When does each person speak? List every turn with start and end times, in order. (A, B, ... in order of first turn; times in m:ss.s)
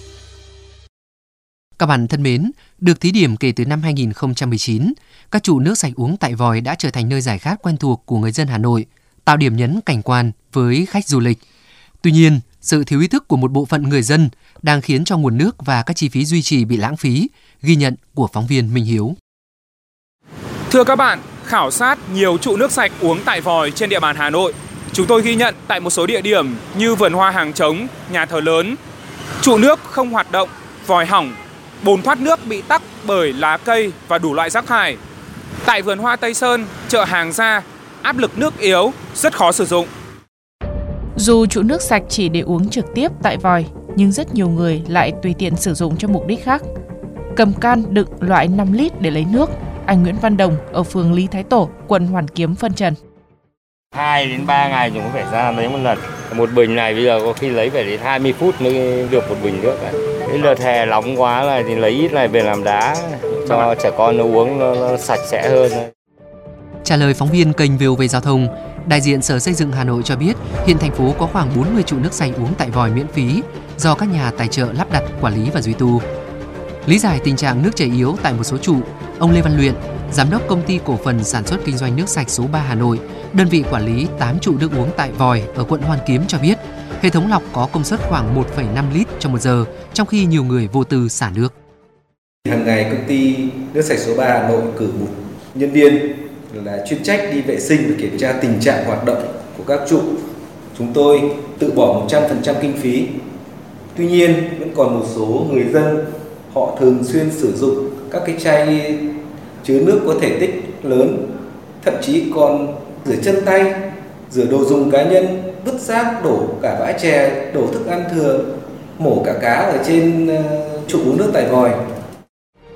0:01.8-0:11.4 A
0:12.0-0:19.2 A
0:20.7-0:28.8 B
0:29.4-0:35.0 B
0:35.6-0:39.9 B
0:41.2-0:46.6 C
0:47.4-0:53.0 C
0:53.9-1:05.9 D
1:06.8-1:16.0 A
1:16.8-1:31.5 A
1:32.5-1:40.1 E
1:40.7-1:43.1 E
1:44.0-1:49.0 E
1:49.6-1:51.2 E
1:51.8-1:53.8 E
1:54.3-1:58.5 E
1:59.0-2:01.8 E